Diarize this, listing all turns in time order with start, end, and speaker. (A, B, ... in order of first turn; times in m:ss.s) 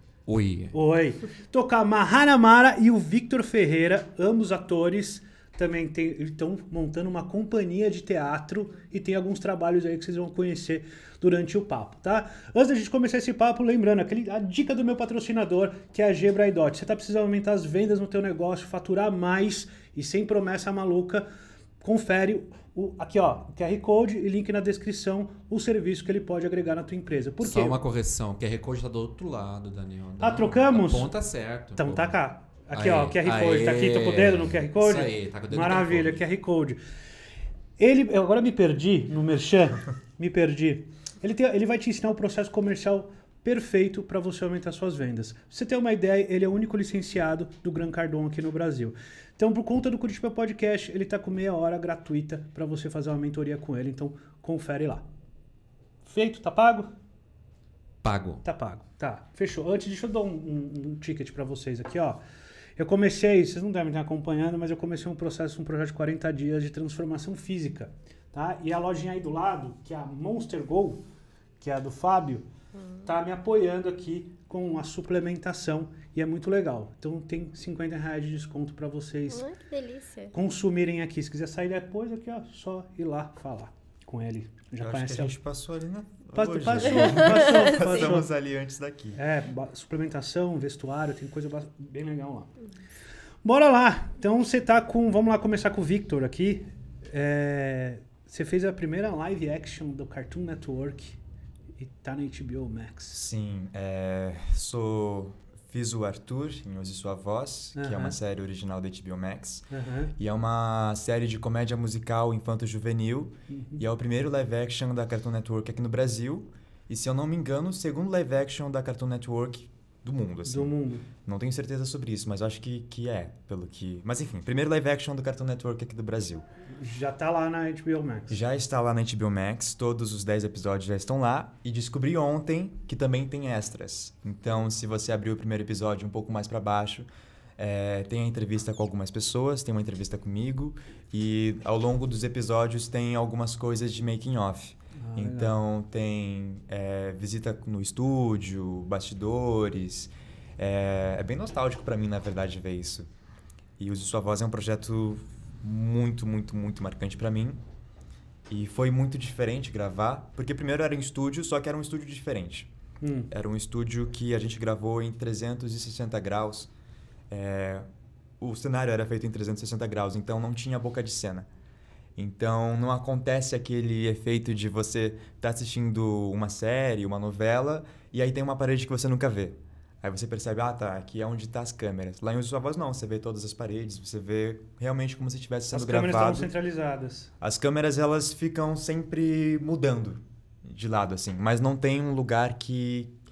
0:00.3-0:00.7 A
0:00.7-0:21.3 B
0:21.8-0:27.8 B
0:27.4-0:32.2 A
0:30.2-0:31.1 B
0:31.8-0:36.8 B
0:32.7-0:36.2 A
0:37.8-0:55.0 B
0:56.0-0:56.9 B
0:58.0-0:58.4 A
0:58.4-1:02.2 B
1:02.8-1:11.0 B
1:11.6-1:12.4 B
1:12.7-1:13.1 C
1:13.0-1:19.4 B
1:19.3-1:20.3 C
1:20.3-1:25.3 B
1:24.8-1:29.2 D
1:26.3-1:28.3 B
1:26.9-1:27.9 C
1:29.1-1:32.5 B
1:33.4-1:41.2 B
1:41.8-1:43.2 B
1:43.1-2:06.4 D
1:47.7-1:48.1 B
1:49.7-1:50.1 B
1:53.5-1:53.8 B
2:00.5-2:01.1 B
2:06.8-2:08.4 B
2:08.3-2:17.0 D
2:17.6-2:33.1 D
2:25.0-2:25.6 B
2:33.8-2:37.6 D
2:38.5-2:42.7 D
2:43.0-2:43.3 B
2:43.3-2:46.7 D
2:47.3-2:47.8 D
2:48.4-2:51.5 D
2:52.2-3:06.5 D
3:05.7-3:07.3 B
3:07.4-3:13.1 D